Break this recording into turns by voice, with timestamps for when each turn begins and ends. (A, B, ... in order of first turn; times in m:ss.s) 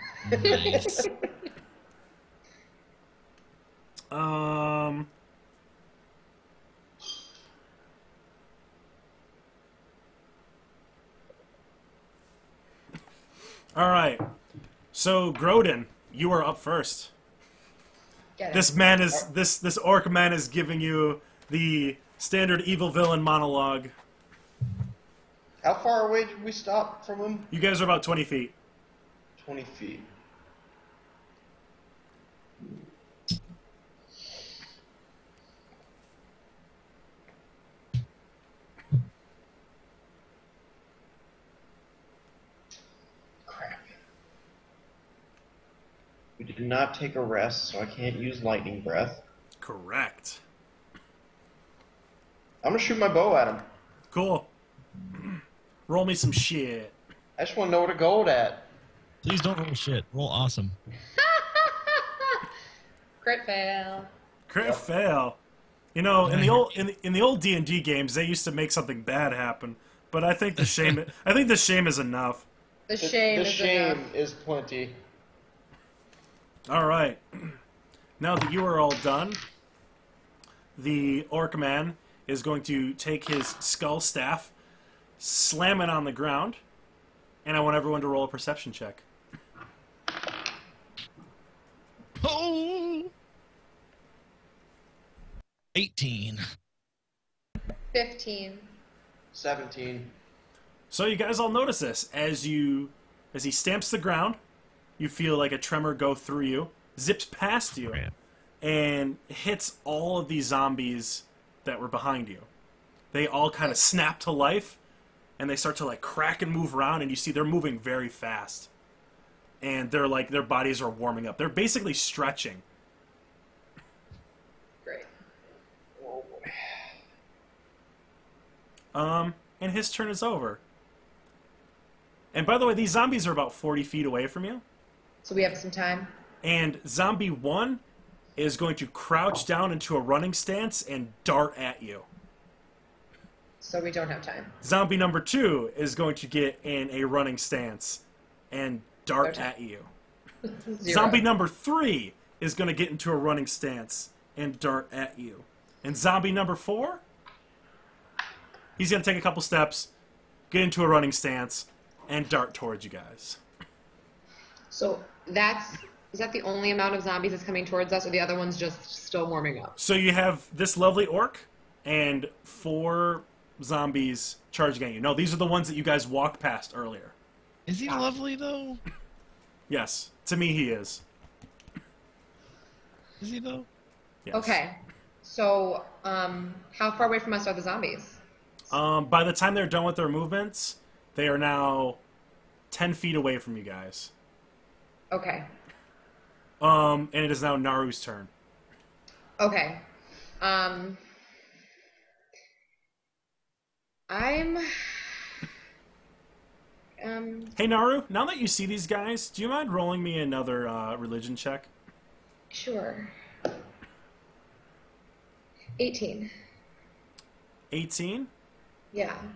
0:00.2-0:00.9 A
0:00.4-0:01.1 B
0:00.4-0:01.1 C
0:04.1-0:05.1 D
0:13.7-0:14.2 D
0:14.9-0:17.1 D
0:18.4-0:18.7 C
0:18.5-0:23.9 D
0:25.6-0:27.5 B
0:27.5-0:28.5 D
0:29.4-0:30.0 B
0:43.5-0:43.8 B
0:46.4-0:49.2 B
0:49.6-0:50.4 D
0:52.6-0:53.6 B
0:54.1-0:54.5 D
0:55.2-0:56.9 D
0:57.4-0:58.7 B
0:59.2-1:00.8 A
1:01.1-1:02.4 C
1:03.2-1:04.1 C
1:04.5-1:05.4 D
1:04.6-1:04.9 B
1:05.9-1:12.5 D
1:06.2-1:06.8 A
1:10.6-1:10.9 A
1:12.9-1:14.1 C
1:13.0-1:15.0 B
1:16.7-1:17.6 D
1:18.2-1:19.4 D
1:20.8-1:24.5 D
1:25.2-1:26.6 D
1:27.4-1:29.0 D
1:32.2-1:33.1 A
1:35.7-1:36.4 A
1:37.9-1:38.7 C
1:39.3-1:40.1 B
1:40.9-1:44.4 D
1:45.0-1:48.0 D
1:48.6-1:52.5 D
1:53.1-1:54.8 D
1:55.4-1:58.7 D
1:59.6-2:02.6 D
2:06.0-2:06.8 B
2:08.9-2:10.6 D
2:12.3-2:14.6 D
2:15.2-2:16.1 C
2:16.4-2:17.8 D
2:18.4-2:22.1 D
2:23.6-2:24.5 C
2:24.6-2:29.9 D
2:29.2-2:29.5 C
2:30.4-2:31.2 C
2:30.8-2:37.0 D
2:38.8-2:39.9 D
2:40.5-2:43.4 D
2:44.7-2:49.8 C
2:49.8-2:57.1 D
2:57.7-2:58.8 A
2:59.7-3:01.0 D
3:03.2-3:03.7 A
3:04.2-3:04.6 D
3:04.3-3:08.2 C
3:08.7-3:12.0 D
3:12.7-3:14.1 D
3:15.1-3:15.5 C
3:16.6-3:18.3 D
3:19.4-3:19.8 C
3:20.4-3:21.0 C
3:24.1-3:25.1 C
3:27.0-3:27.6 C
3:27.6-3:31.7 D
3:32.5-3:33.1 C
3:35.8-3:36.3 C
3:37.7-3:38.3 D
3:38.9-3:39.2 C